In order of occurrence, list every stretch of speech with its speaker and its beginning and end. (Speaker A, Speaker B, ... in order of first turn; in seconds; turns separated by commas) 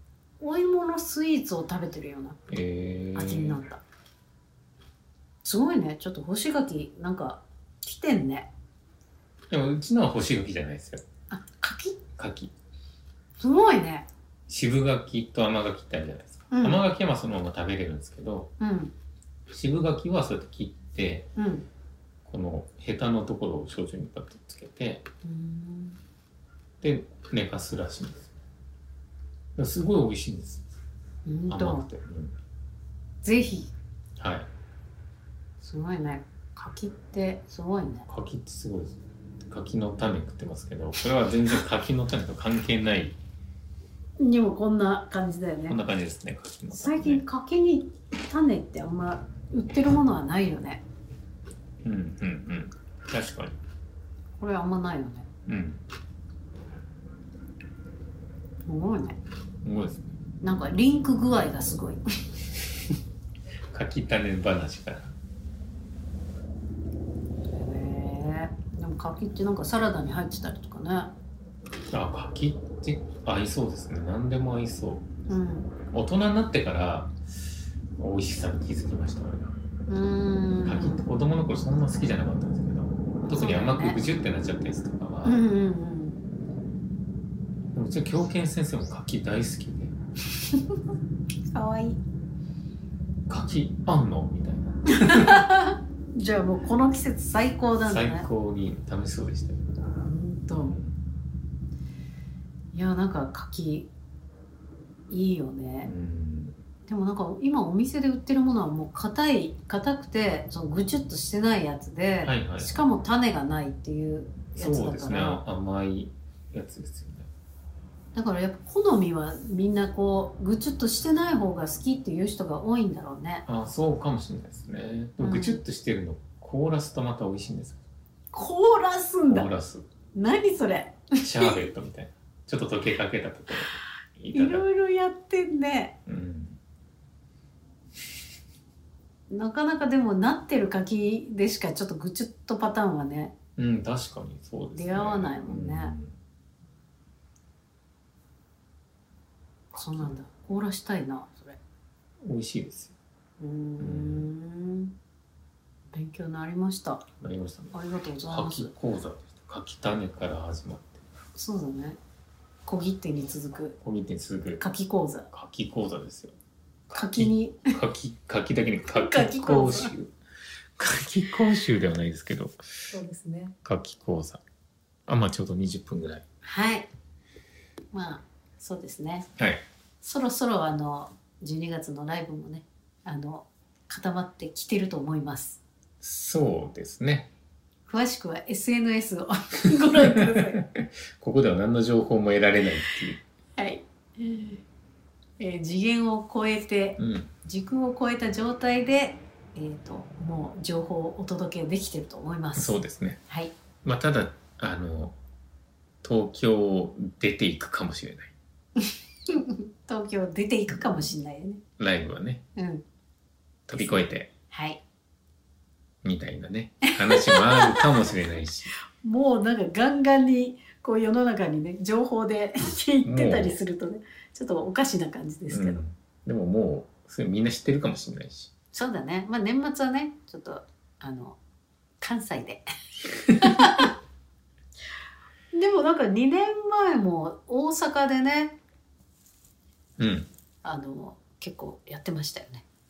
Speaker A: 0.4-2.4, Speaker B: 2.5-3.6, Speaker A: 3.1-3.8, Speaker A: 5.4-8.5, Speaker B: 9.5-11.0, Speaker A: 11.3-12.0, Speaker B: 12.2-12.5, Speaker A: 13.4-14.1, Speaker B: 14.5-18.5, Speaker A: 16.5-16.8, Speaker A: 18.6-18.9, Speaker B: 19.5-21.3, Speaker A: 21.4-21.7, Speaker B: 22.2-25.0, Speaker A: 25.2-26.0, Speaker B: 26.8-28.3, Speaker B: 29.6-30.6, Speaker A: 31.2-31.9, Speaker B: 31.5-32.4, Speaker A: 33.2-33.7, Speaker B: 34.2-34.5, Speaker A: 35.6-38.1, Speaker B: 38.1-43.2, Speaker A: 44.2-45.8, Speaker B: 45.7-47.2, Speaker A: 46.7-50.8, Speaker B: 51.8-53.6, Speaker A: 54.4-55.3, Speaker B: 55.5-55.8, Speaker A: 58.7-59.2, Speaker B: 59.6-60.1, Speaker A: 60.4-62.0, Speaker B: 63.7-65.1, Speaker A: 67.5-71.1, Speaker B: 71.9-75.1, Speaker A: 75.3-75.7, Speaker B: 75.9-77.1, Speaker B: 78.0-79.5, Speaker A: 79.9-81.0, Speaker B: 80.6-85.4, Speaker A: 83.3-84.0, Speaker A: 85.2-86.2, Speaker B: 87.7-89.9, Speaker A: 90.5-90.8, Speaker A: 91.5-92.0, Speaker B: 93.3-95.5, Speaker A: 94.9-98.3, Speaker B: 97.8-99.7, Speaker A: 100.0-100.8, Speaker B: 100.6-101.0, Speaker A: 102.7-103.9, Speaker A: 105.1-105.9, Speaker B: 105.8-106.6, Speaker A: 106.9-115.4, Speaker B: 112.2-112.8, Speaker B: 114.5-117.3, Speaker A: 118.2-123.5, Speaker B: 123.5-127.8, Speaker A: 125.2-125.6, Speaker A: 128.3-129.5, Speaker B: 129.3-129.9, Speaker A: 130.1-131.7, Speaker B: 131.2-134.7, Speaker A: 134.3-136.0, Speaker B: 136.1-136.6, Speaker A: 139.3-143.3, Speaker B: 143.6-146.2, Speaker A: 144.7-145.9, Speaker B: 149.7-150.1, Speaker A: 149.7-151.6, Speaker B: 152.2-152.9, Speaker A: 153.4-154.9, Speaker B: 153.8-154.3, Speaker A: 155.9-157.1, Speaker B: 157.2-157.7, Speaker A: 157.7-158.7, Speaker B: 158.3-161.0, Speaker A: 161.3-162.0, Speaker A: 162.7-163.8, Speaker B: 163.8-164.6, Speaker A: 164.6-165.3, Speaker B: 165.3-166.4, Speaker B: 166.9-170.1, Speaker A: 166.9-167.7, Speaker A: 168.9-169.9, Speaker B: 170.8-172.6, Speaker A: 172.9-173.6, Speaker B: 173.7-174.4, Speaker B: 175.1-176.2, Speaker A: 176.4-176.9, Speaker A: 177.9-179.3, Speaker B: 179.4-179.6, Speaker A: 180.0-185.6, Speaker B: 186.0-187.3, Speaker A: 187.9-190.6, Speaker B: 189.7-193.2, Speaker A: 193.6-194.6, Speaker A: 195.4-203.5, Speaker B: 197.0-197.3, Speaker B: 202.6-203.2, Speaker B: 203.8-205.2, Speaker B: 206.0-208.3, Speaker A: 208.8-211.6, Speaker B: 210.7-211.0, Speaker B: 211.8-212.4, Speaker A: 212.6-212.8, Speaker B: 213.7-214.3, Speaker A: 214.5-214.8, Speaker B: 216.0-218.8, Speaker A: 216.8-218.1, Speaker A: 219.0-225.8, Speaker B: 223.1-223.6, Speaker B: 225.5-228.5, Speaker A: 228.7-231.4, Speaker A: 232.0-232.6, Speaker A: 233.3-233.9, Speaker A: 235.5-238.6, Speaker B: 240.0-240.3, Speaker A: 240.6-242.7